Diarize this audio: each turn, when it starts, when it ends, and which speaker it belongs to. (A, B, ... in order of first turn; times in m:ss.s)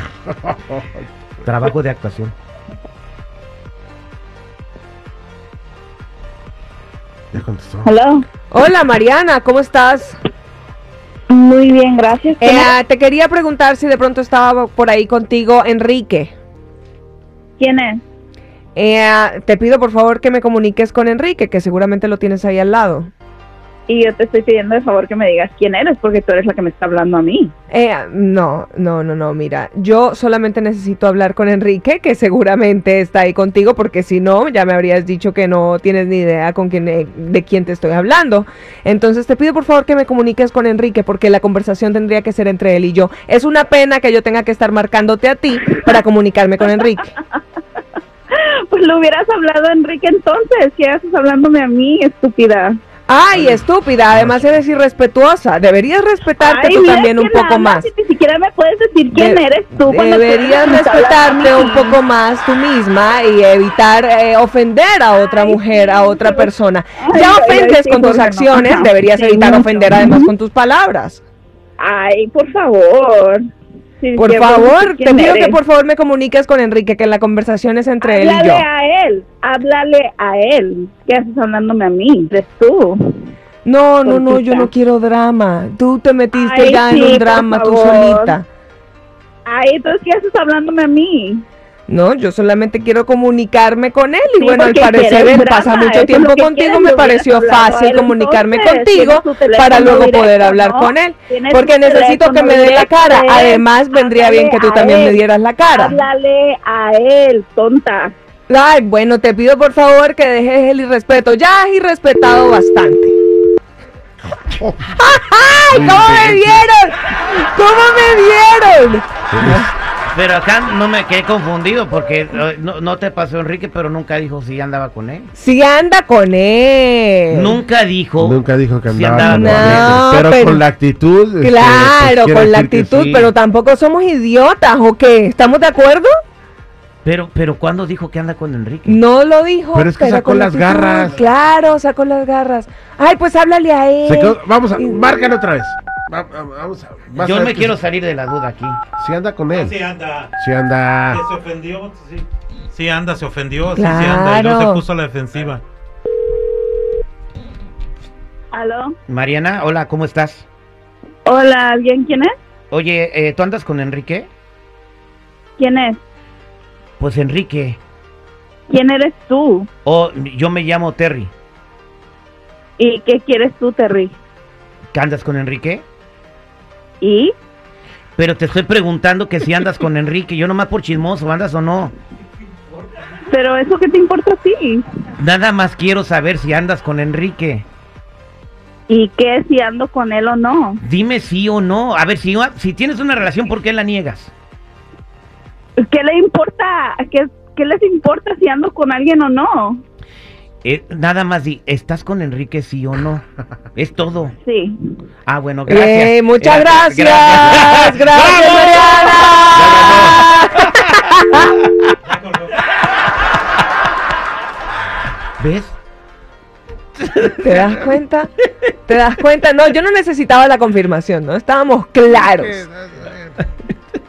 0:01.4-0:02.3 A
0:07.3-0:07.9 B
0:07.8-0:08.2 C
0:08.5-0:10.2 D
0:11.3-0:12.7 C
0:12.4-0:16.3 D
0:17.6-0:18.0 C
0:18.8-0:23.1 D
0:23.9-0:27.5 C
0:27.7-0:47.1 D
0:48.3-0:52.8 C
0:53.1-0:57.9 D
0:56.4-1:02.0 C
0:59.1-1:11.2 D
1:05.3-1:06.5 C
1:07.0-1:10.3 C
1:11.8-1:13.4 C
1:14.0-1:15.6 C
1:14.2-1:18.6 D
1:18.0-1:23.3 C
1:23.6-1:28.4 D
1:24.0-1:24.7 C
1:26.3-1:28.4 C
1:29.4-1:31.4 C
1:31.9-1:46.0 D
1:34.4-1:48.1 C
1:48.5-1:53.1 D
1:54.6-1:55.0 B
1:55.0-1:59.7 D
1:55.7-1:56.6 B
1:59.3-1:59.7 B
2:00.1-2:05.3 A
2:05.3-2:07.6 D
2:07.3-2:10.2 A
2:08.2-2:13.3 B
2:09.2-2:10.6 D
2:11.4-2:16.1 D
2:17.0-2:19.0 A
2:18.8-2:25.1 D
2:19.7-2:21.2 B
2:24.0-2:27.7 B
2:27.1-2:28.8 A
2:29.0-2:29.8 B
2:29.5-2:30.3 E
2:30.4-2:31.2 B
2:31.1-2:35.6 E
2:33.8-2:34.8 D
2:38.5-2:38.9 C
2:39.1-2:40.4 A
2:41.2-2:42.3 C
2:42.7-2:44.3 A
2:45.6-2:46.0 C
2:47.0-2:47.8 A
2:48.7-2:49.7 C
2:49.8-2:51.3 A
2:52.8-2:54.1 C
2:54.9-2:55.8 A
2:57.0-2:57.3 C
2:58.2-3:01.9 A
3:03.3-3:05.0 C
3:05.2-3:07.6 A
3:08.9-3:10.8 C
3:10.8-3:14.3 A
3:15.9-3:19.8 C
3:20.6-3:23.2 A
3:23.7-3:24.3 A
3:24.4-3:24.8 C
3:25.2-3:30.0 A
3:25.7-3:31.4 D
3:29.5-3:30.2 B
3:32.1-3:32.5 E
3:35.4-3:35.7 A
3:37.0-3:37.9 A
3:37.4-3:38.3 D
3:38.8-3:42.7 D
3:42.6-3:43.3 B